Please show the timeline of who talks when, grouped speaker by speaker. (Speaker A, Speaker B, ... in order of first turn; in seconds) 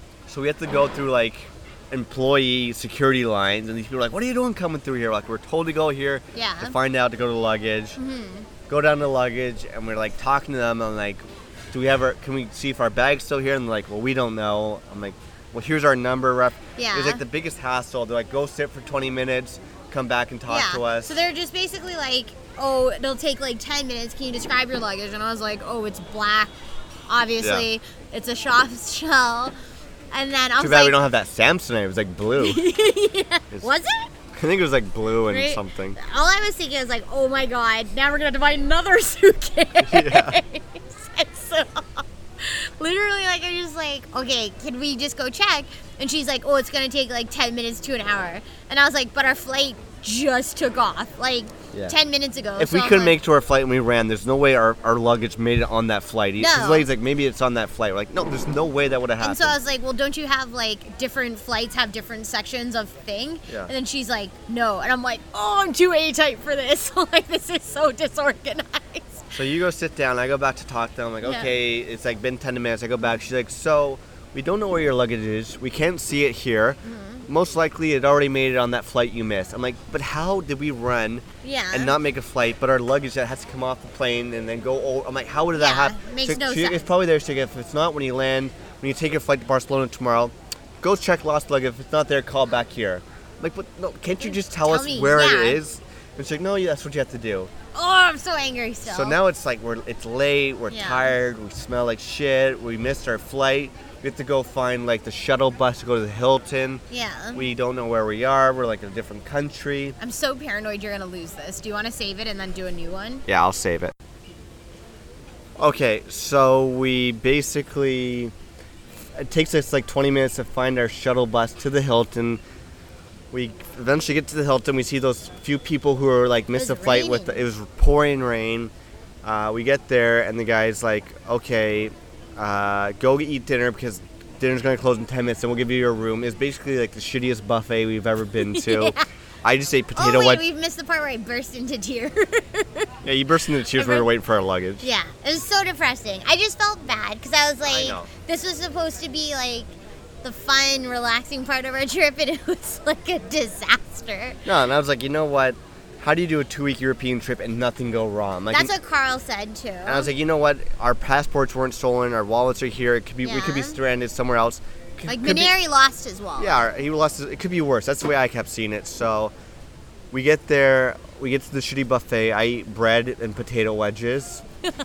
Speaker A: 0.3-8.0, 8.7-21.2, 27.4-27.7, 30.6-32.6, 34.4-36.0, 39.8-40.4, 52.6-59.6, 69.3-97.5, 98.8-110.0, 113.3-114.0, 115.6-118.3, 119.2-122.4, 123.3-128.7, 129.2-140.4, 143.0-144.9, 147.6-148.1, 154.4-158.7, 159.9-165.5, 166.4-169.3, 170.1-174.4
Speaker B: 6.3-6.8, 8.0-8.5, 16.8-17.2, 20.5-26.5, 27.1-29.5, 30.1-31.0, 32.4-34.1, 35.3-53.2, 56.4-56.9, 59.2-69.3, 71.2-71.5, 76.8-77.3, 81.4-82.0, 85.5-86.9, 94.3-95.6, 97.7-99.2, 100.7-101.1, 106.9-107.4, 110.0-113.3, 126.5-127.4, 138.4-139.1, 139.9-142.9, 143.7-144.1, 144.8-149.7, 150.2-154.4, 158.5-160.1, 163.2-163.8, 165.1-166.7